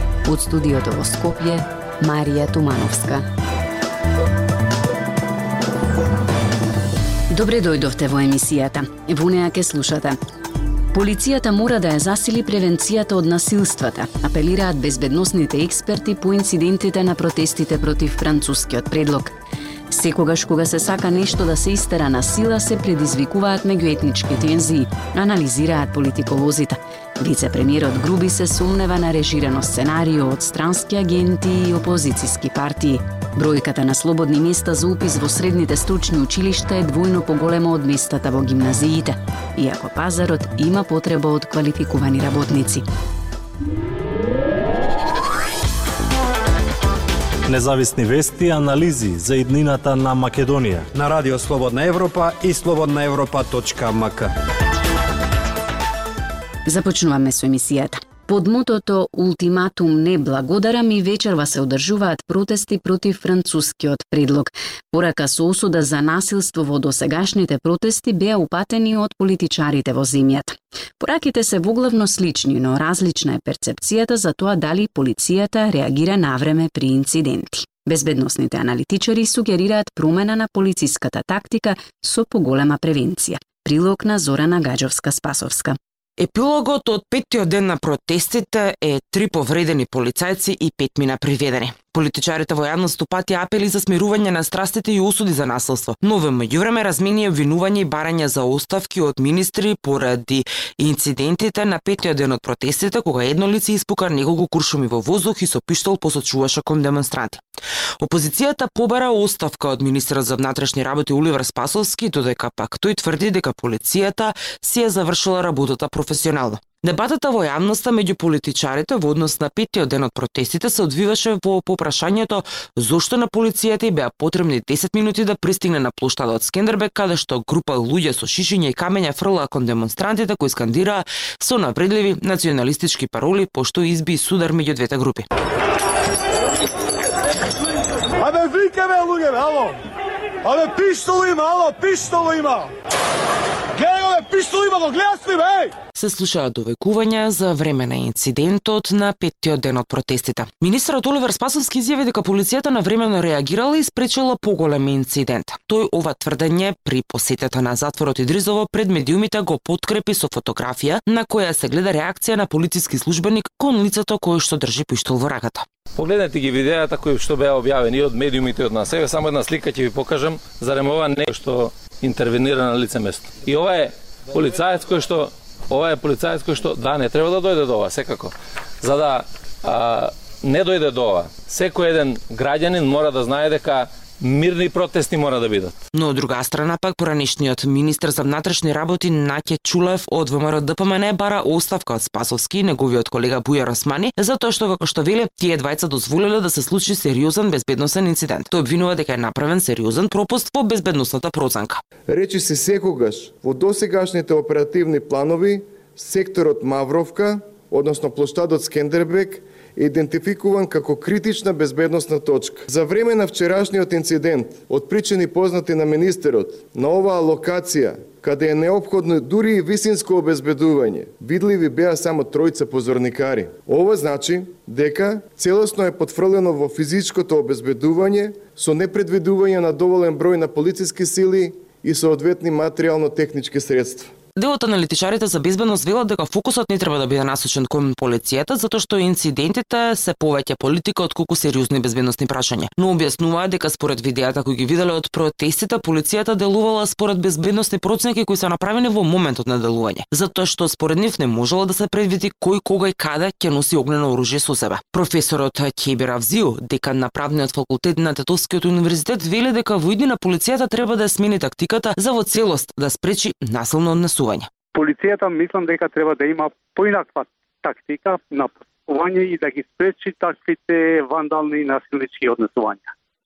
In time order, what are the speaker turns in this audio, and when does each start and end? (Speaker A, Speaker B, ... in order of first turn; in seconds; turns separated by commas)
Speaker A: 0.3-3.0, Speaker A: 7.3-10.2, Speaker A: 10.9-19.3, Speaker A: 19.9-42.8, Speaker B: 47.5-50.9, Speaker C: 50.9-54.3, Speaker A: 56.6-85.8, Speaker D: 86.2-107.4, Speaker D: 108.0-135.2, Speaker E: 138.2-139.7, Speaker E: 140.4-142.7, Speaker E: 143.8-145.7, Speaker D: 145.9-165.7, Speaker F: 165.9-185.8, Speaker D: 185.9-201.8, Speaker G: 202.1-234.1, Speaker D: 234.3-264.5, Speaker H: 264.7-272.9